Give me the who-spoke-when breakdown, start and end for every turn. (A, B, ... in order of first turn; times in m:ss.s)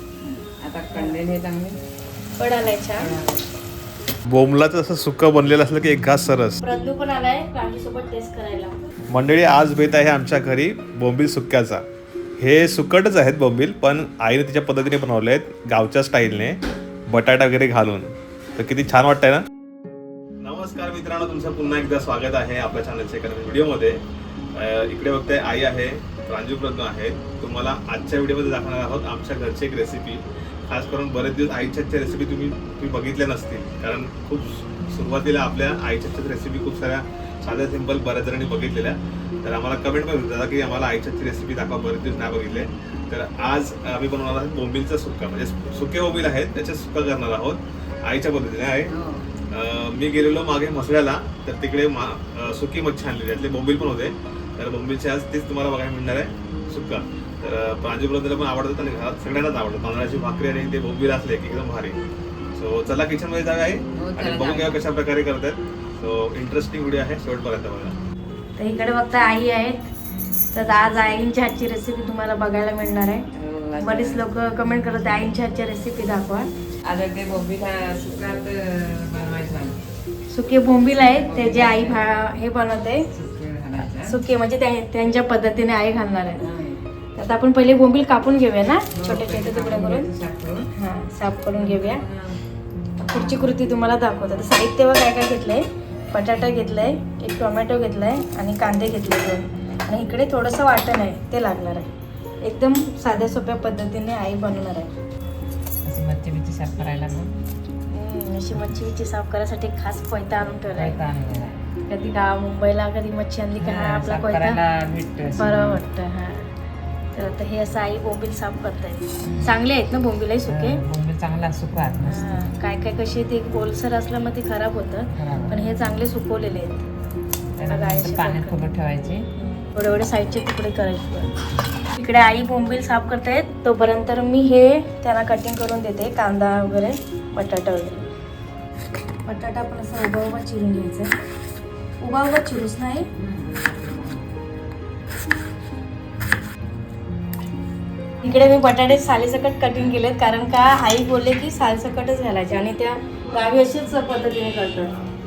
0:00.6-0:01.8 A
0:00.9-0:01.2 B
0:02.4-0:03.1 B
0:03.0-0:03.4 A
0:04.3-0:06.6 C
0:06.6-0:08.8 B
0:09.1-0:11.8 C
0:12.4-0:19.4 C
0:20.4-0:24.0 C
0:24.5-0:48.9 C
0:48.9-0:49.3 A
0:49.5-1:02.0 C
1:02.5-1:08.0 C
1:04.0-1:04.8 A
1:08.6-1:09.8 B
1:10.5-1:13.2 B
1:13.3-1:14.3 A
1:13.8-1:16.5 B
1:16.8-1:19.8 A
1:20.3-1:23.0 B
1:21.1-1:22.0 A
1:23.1-1:24.2 A
1:24.1-1:26.4 B
1:26.4-1:26.8 A
1:27.2-1:30.1 B
1:28.9-1:30.6 A
1:30.7-1:32.0 B
1:31.5-1:32.4 A
1:33.0-1:41.9 B
1:33.1-1:33.4 A
1:42.4-1:44.9 B
1:45.8-1:47.3 A
1:47.9-1:51.0 B
1:50.7-1:51.6 A
1:51.9-1:54.6 B
1:53.6-1:55.8 A
1:55.4-1:56.5 B
1:57.1-2:00.8 B
1:59.2-1:59.5 A
2:00.5-2:02.5 A
2:02.0-2:06.8 B
2:05.1-2:05.6 A
2:07.6-2:09.2 A
2:07.7-2:08.6 B
2:09.4-2:11.3 B
2:11.9-2:18.0 B
2:19.2-2:21.1 B
2:22.0-2:23.1 B
2:23.2-2:24.3 A
2:28.2-2:34.9 B